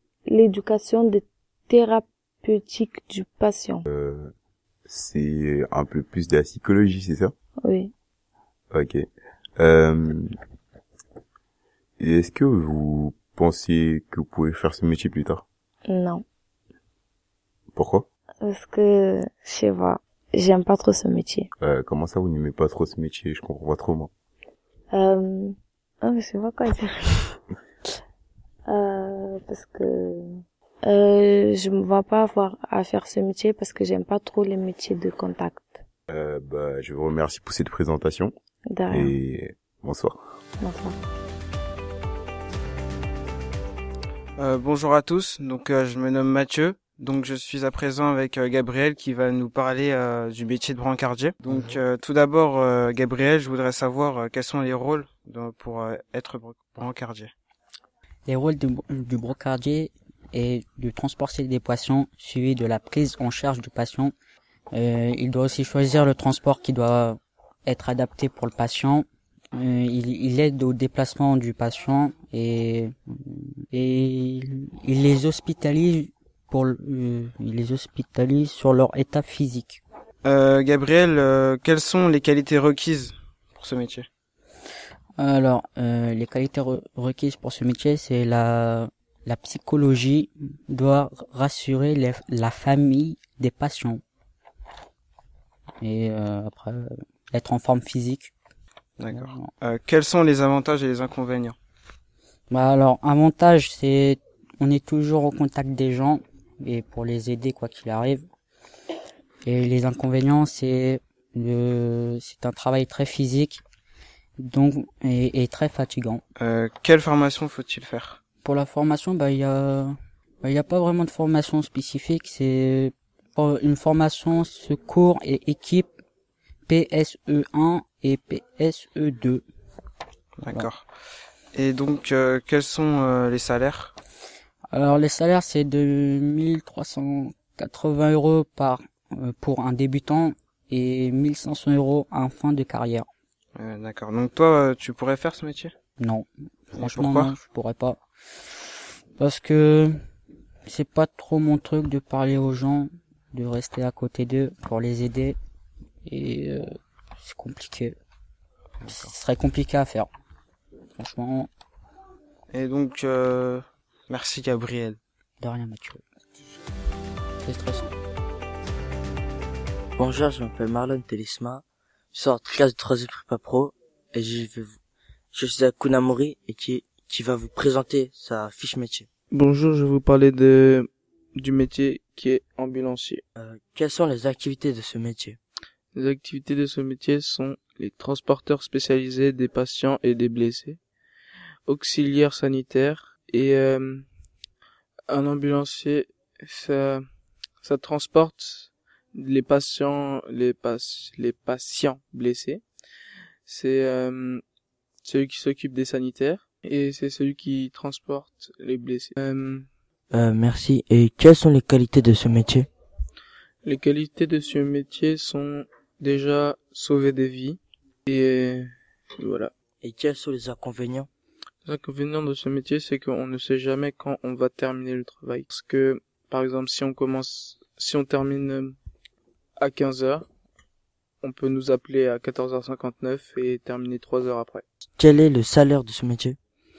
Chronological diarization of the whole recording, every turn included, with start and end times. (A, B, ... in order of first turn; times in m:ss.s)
0:00.3-0:03.8 A
0:03.8-0:04.3 B
0:04.9-0:07.3 B
0:07.6-0:07.9 A
0:08.7-0:09.0 B
0:09.6-0:10.3 B
0:12.0-0:15.4 B
0:15.9-0:16.2 A
0:17.7-0:18.0 B
0:18.4-0:21.5 A
0:21.6-0:24.1 B
0:24.9-0:27.4 A
0:28.7-0:30.3 A
0:30.8-0:35.8 A
0:36.1-0:38.3 B
0:38.7-0:39.1 A
0:38.9-0:40.2 B
0:40.6-0:41.0 A
0:44.4-0:57.3 C
0:58.3-1:04.1 D
1:04.7-1:19.8 D
1:20.2-1:24.1 C
1:25.2-1:34.0 D
1:35.8-1:38.3 D
1:39.0-1:41.6 C
1:39.1-1:39.5 D
1:42.5-1:48.2 D
1:49.4-1:53.6 D
1:54.4-1:56.2 D
1:56.4-1:58.2 C
1:58.4-2:05.9 D
2:06.7-2:09.4 D
2:10.4-2:10.8 C
2:11.5-2:13.9 C
2:14.7-2:23.1 D
2:23.6-2:25.7 C
2:26.0-2:28.0 D
2:26.8-2:27.3 C
2:29.2-2:30.0 D
2:30.7-2:35.4 D
2:36.0-2:37.9 D
2:38.8-2:40.1 D
2:41.0-2:41.5 D
2:42.5-2:45.0 C
2:45.4-2:46.0 D
2:47.4-2:47.9 D
2:50.0-2:54.8 E
2:55.3-2:59.1 E
2:59.3-3:03.2 F
3:03.3-3:05.4 E
3:05.9-3:10.8 F
3:11.7-3:14.0 F
3:15.1-3:17.0 F
3:17.6-3:22.6 F
3:23.4-3:24.4 F
3:25.0-3:29.7 F
3:30.1-3:32.7 E
3:33.6-3:39.5 F
3:39.8-3:41.1 E
3:41.6-3:48.8 F
3:49.6-3:50.2 F
3:51.2-3:54.6 F
3:55.0-3:56.4 E